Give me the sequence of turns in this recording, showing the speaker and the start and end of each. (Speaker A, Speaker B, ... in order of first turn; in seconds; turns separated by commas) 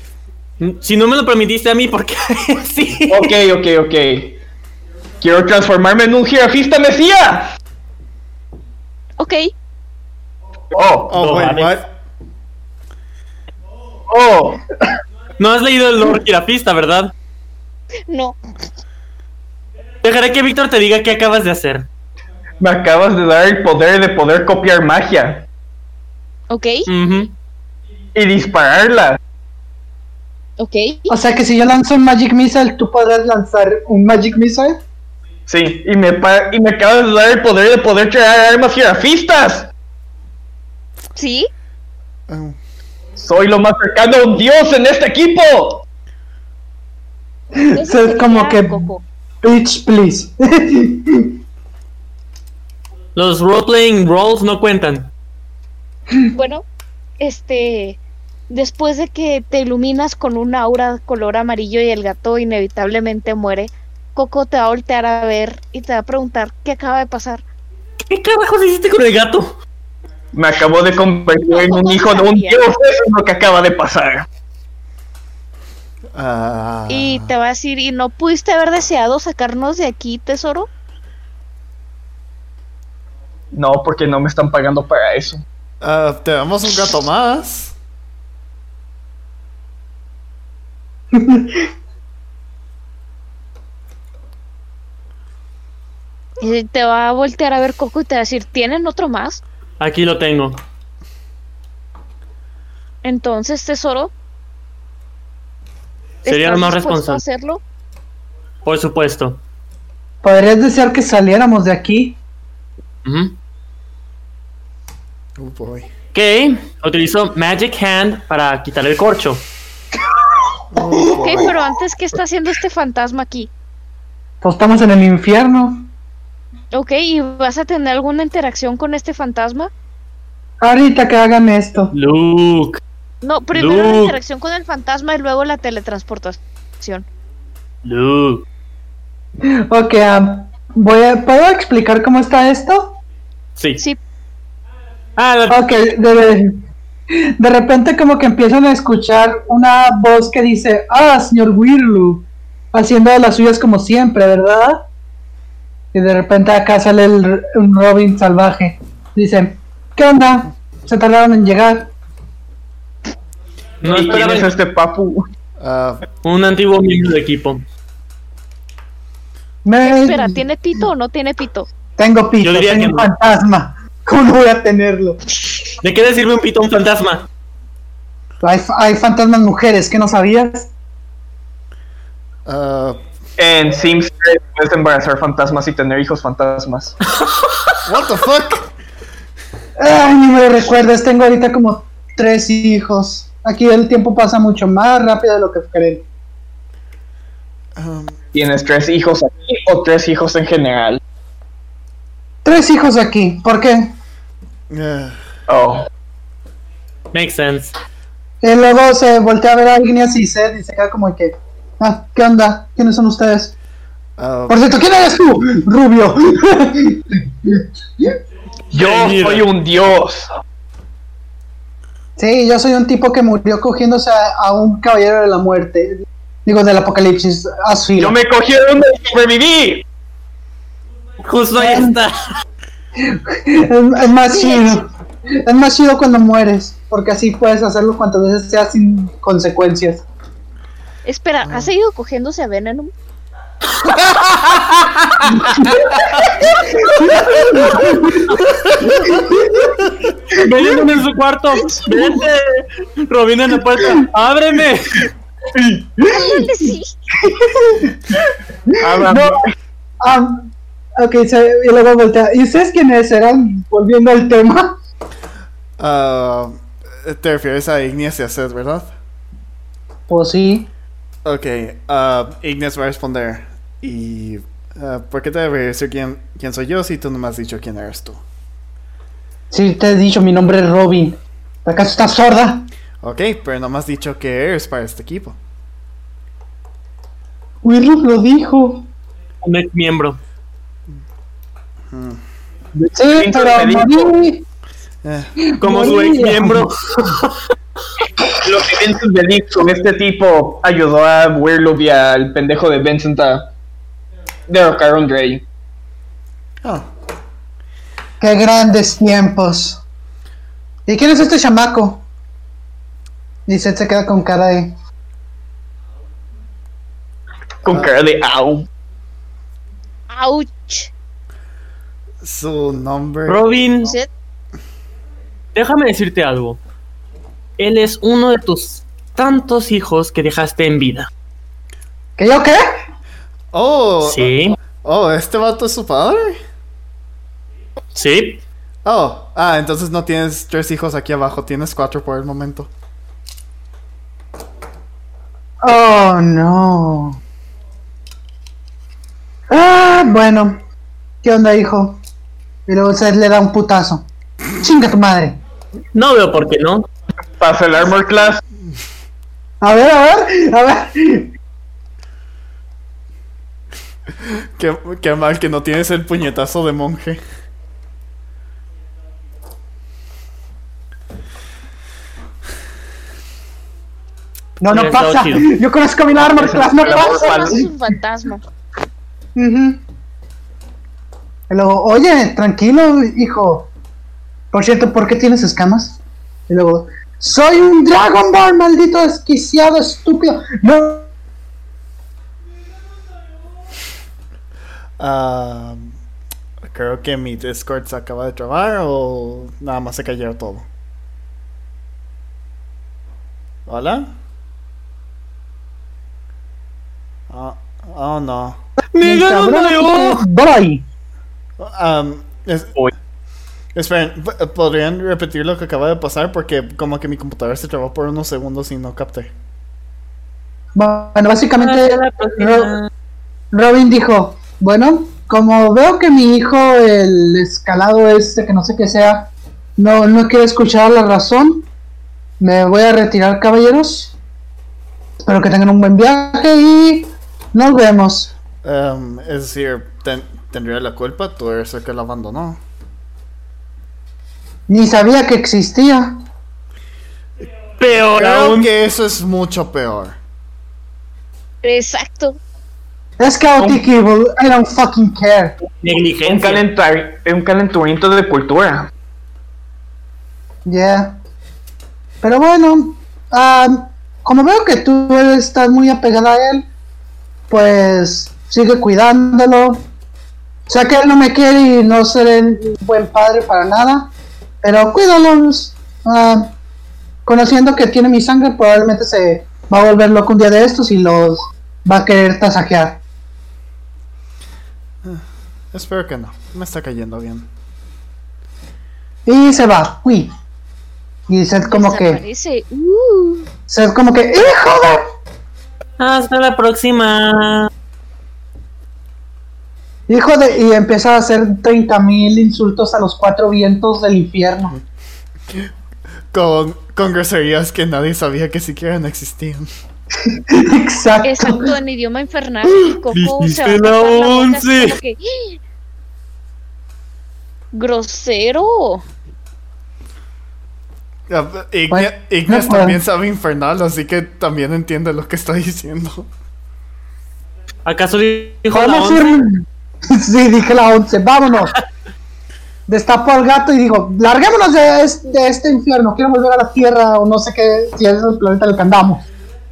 Speaker A: 0.6-3.3, Speaker B: 3.1-4.4, Speaker B: 5.2-7.5, Speaker C: 9.2-9.5, Speaker B: 10.7-11.1, Speaker D: 11.1-11.9, Speaker A: 11.2-11.7, Speaker B: 14.1-14.6, Speaker A: 15.4-17.1, Speaker C: 18.1-18.4, Speaker A: 20.0-21.9, Speaker B: 22.6-25.4, Speaker C: 26.5-26.9, Speaker A: 26.9-27.3, Speaker B: 28.1-29.2, Speaker C: 30.6-31.1, Speaker E: 31.1-34.8, Speaker B: 35.5-39.7, Speaker C: 41.1-41.5, Speaker D: 42.3-42.6, Speaker B: 43.2-45.8, Speaker E: 47.5-48.9, Speaker C: 47.7-49.0, Speaker E: 49.4-51.4, Speaker A: 53.1-55.1, Speaker C: 56.3-56.6, Speaker C: 57.2-67.4, Speaker A: 68.0-69.5, Speaker B: 70.3-74.2, Speaker C: 71.5-72.6, Speaker D: 76.1-77.3, Speaker C: 76.9-80.7, Speaker B: 83.5-85.4, Speaker D: 85.8-87.7, Speaker E: 91.1-91.6, Speaker C: 96.4-99.4, Speaker A: 99.8-100.6, Speaker C: 103.0-104.1, Speaker C: 106.2-107.6, Speaker A: 106.2-107.2, Speaker A: 108.6-109.4, Speaker E: 110.2-112.2, Speaker A: 113.0-113.3, Speaker D: 115.4-115.9, Speaker A: 116.1-119.5, Speaker D: 120.7-121.5, Speaker C: 121.1-123.5, Speaker E: 124.4-125.9, Speaker C: 126.7-129.7, Speaker E: 130.6-131.9, Speaker A: 131.9-132.8, Speaker C: 133.2-137.1, Speaker A: 133.5-134.2, Speaker A: 137.8-138.4, Speaker E: 139.4-143.0, Speaker A: 145.2-145.6, Speaker E: 145.5-146.6, Speaker E: 147.1-154.8, Speaker E: 155.9-161.9, Speaker A: 163.8-164.5, Speaker B: 163.8-165.3, Speaker D: 165.6-166.0, Speaker A: 166.2-167.6, Speaker E: 169.6-170.4, Speaker C: 169.8-171.7, Speaker E: 172.0-175.2, Speaker A: 172.4-173.1, Speaker A: 175.8-177.2, Speaker E: 178.4-180.7, Speaker D: 182.4-183.0, Speaker B: 183.4-186.9, Speaker D: 187.8-188.7, Speaker E: 189.8-196.0, Speaker D: 197.8-198.2, Speaker B: 198.3-201.0, Speaker E: 202.4-203.9, Speaker D: 204.7-205.2, Speaker B: 205.5-205.9, Speaker A: 207.1-207.7, Speaker E: 208.4-213.5, Speaker D: 214.2-214.8, Speaker E: 214.5-218.2, Speaker B: 218.7-220.3, Speaker A: 218.7-219.5, Speaker E: 222.2-228.2, Speaker B: 228.0-229.8, Speaker A: 231.2-232.2, Speaker E: 231.6-232.0, Speaker E: 233.0-234.9, Speaker C: 234.3-234.8, Speaker E: 235.4-240.0, Speaker C: 241.0-242.9, Speaker D: 241.4-241.7, Speaker A: 244.3-244.7, Speaker E: 246.8-248.4, Speaker A: 247.5-247.8, Speaker E: 249.1-249.7, Speaker A: 250.4-255.1, Speaker E: 250.5-250.8, Speaker E: 255.6-259.4, Speaker C: 256.1-256.9, Speaker B: 258.8-259.5, Speaker E: 260.0-264.7, Speaker D: 265.8-268.9, Speaker E: 270.1-270.7, Speaker D: 271.2-278.2, Speaker E: 279.5-282.7, Speaker D: 283.0-285.4, Speaker E: 287.6-288.9, Speaker A: 289.4-290.2, Speaker D: 291.9-292.2, Speaker B: 292.8-294.1, Speaker E: 292.9-294.4, Speaker D: 295.0-295.3, Speaker E: 295.4-296.7, Speaker A: 295.6-297.3, Speaker B: 298.4-303.5, Speaker B: 304.5-305.4, Speaker E: 308.2-309.8, Speaker E: 310.9-312.0, Speaker E: 313.5-314.7, Speaker B: 317.6-318.7, Speaker C: 320.1-320.9, Speaker D: 322.2-323.4, Speaker A: 323.3-323.9, Speaker A: 325.5-326.6, Speaker A: 327.6-331.1, Speaker E: 332.2-332.6, Speaker D: 333.5-336.4, Speaker A: 334.0-334.6, Speaker A: 337.9-338.4, Speaker D: 338.8-342.7, Speaker E: 345.6-347.2, Speaker E: 349.5-350.6, Speaker E: 351.2-352.0, Speaker E: 352.7-354.1, Speaker E: 354.6-355.4, Speaker A: 355.9-356.9, Speaker B: 357.4-358.4, Speaker E: 359.6-361.3, Speaker D: 364.2-367.2, Speaker E: 374.6-377.7, Speaker A: 374.7-375.5, Speaker B: 376.1-377.6, Speaker C: 376.8-378.4, Speaker E: 379.4-379.8, Speaker E: 381.5-383.7, Speaker E: 384.5-391.1, Speaker D: 395.0-395.9, Speaker D: 396.6-400.6, Speaker D: 403.7-404.1, Speaker D: 407.3-408.6, Speaker A: 408.9-410.2, Speaker E: 409.0-410.8, Speaker D: 411.6-412.8, Speaker D: 413.7-419.3, Speaker E: 420.7-422.8, Speaker A: 421.6-422.9, Speaker E: 423.5-431.7, Speaker E: 432.4-434.1, Speaker E: 435.2-438.3, Speaker D: 438.6-442.6, Speaker E: 444.7-446.2, Speaker A: 447.8-448.7, Speaker D: 448.1-450.2, Speaker C: 451.6-452.4, Speaker E: 453.2-455.6, Speaker A: 455.7-456.6, Speaker B: 456.2-458.9, Speaker E: 460.6-461.2, Speaker E: 462.2-466.7, Speaker E: 467.5-469.9, Speaker E: 470.7-476.5, Speaker E: 477.2-483.0, Speaker D: 485.0-487.5, Speaker E: 489.2-490.3, Speaker E: 491.3-492.2, Speaker C: 491.6-493.5, Speaker E: 493.7-495.0, Speaker A: 496.0-497.7, Speaker E: 500.1-504.7, Speaker D: 506.3-509.7, Speaker E: 510.2-511.7, Speaker C: 511.2-515.6, Speaker A: 512.7-515.0, Speaker C: 517.7-519.0, Speaker D: 521.3-526.3, Speaker E: 521.9-523.0, Speaker A: 527.8-529.4, Speaker E: 528.7-531.7, Speaker E: 532.9-539.2